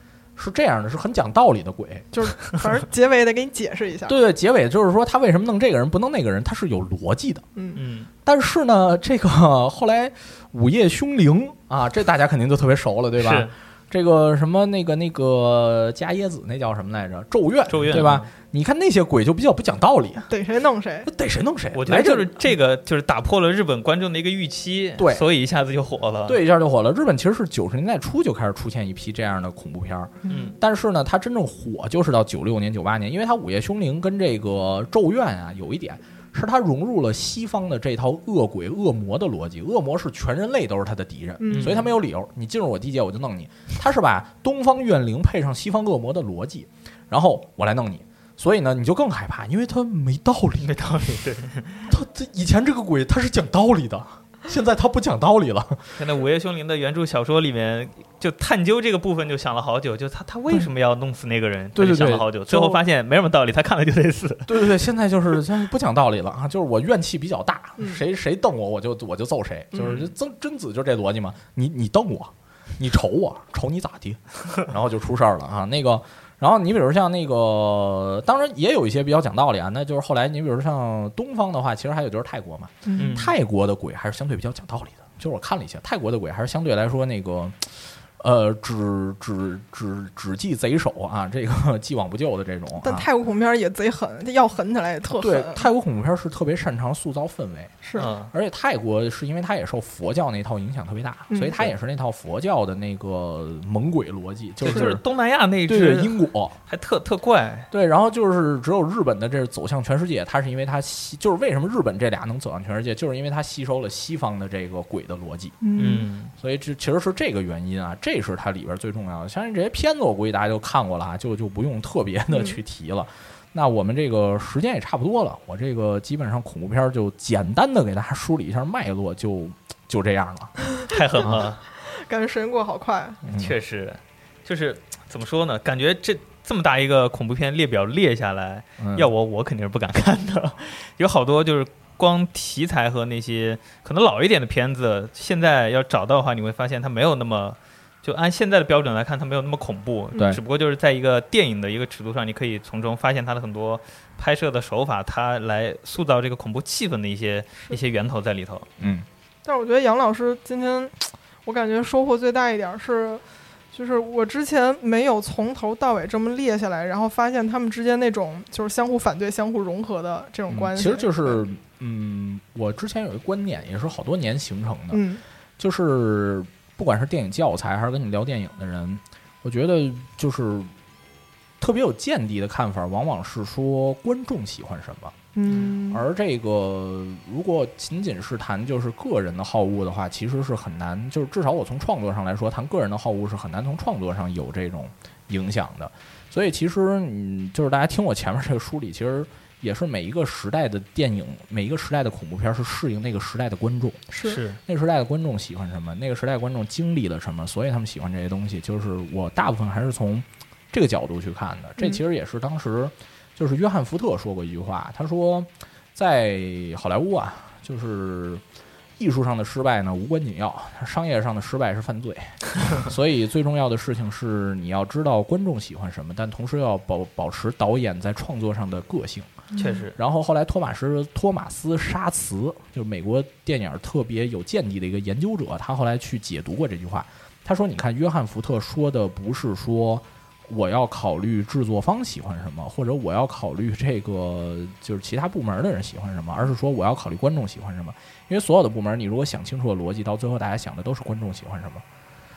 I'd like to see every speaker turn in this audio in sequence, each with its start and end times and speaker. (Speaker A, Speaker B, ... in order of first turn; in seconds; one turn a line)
Speaker A: 0.4-2.1
Speaker B: 2.1-4.2
Speaker A: 4.1-7.5
Speaker B: 7.6-7.8
Speaker C: 7.8-8.1
Speaker A: 8.2-20.3
Speaker C: 13.2-13.5
Speaker C: 17.7-18.3
Speaker B: 20.3-21.1
Speaker A: 21.1-22.3
Speaker C: 21.7-26.4
Speaker A: 25.0-25.2
Speaker A: 26.3-50.7
Speaker B: 30.2-30.6
Speaker C: 30.3-30.6
Speaker B: 41.4-41.8
Speaker C: 41.5-41.9
Speaker C: 50.6-51.9
Speaker A: 51.9-56.0
Speaker C: 56.0-64.7
Speaker A: 61.8-62.8
Speaker A: 64.5-93.1
Speaker C: 69.8-70.1
Speaker B: 82.9-83.2
Speaker C: 83.0-83.4
Speaker B: 92.8-95.7
Speaker A: 95.2-105.0
Speaker B: 97.8-98.1
Speaker C: 98.0-98.3
Speaker B: 101.3-101.6
Speaker C: 104.6-107.7
Speaker A: 105.7-106.6
Speaker A: 107.7-115.6
Speaker B: 115.6-116.1
Speaker C: 115.8-116.3
Speaker A: 116.4-130.6
Speaker B: 122.3-122.6
Speaker C: 130.9-131.6
Speaker B: 131.7-133.2
Speaker A: 133.2-133.5
Speaker C: 133.3-158.7
Speaker A: 138.8-139.1
Speaker A: 158.8-159.1
Speaker B: 159.4-171.4
Speaker A: 170.5-175.0
Speaker B: 174.9-175.2
Speaker A: 175.6-180.7
Speaker A: 181.6-185.2
Speaker B: 185.3-186.1
Speaker A: 185.9-204.1
Speaker B: 204.1-204.4
Speaker C: 204.2-204.6
Speaker A: 204.6-218.4
Speaker A: 219.0-229.3
Speaker B: 229.5-229.9
Speaker C: 229.6-229.9
Speaker A: 230.0-251.8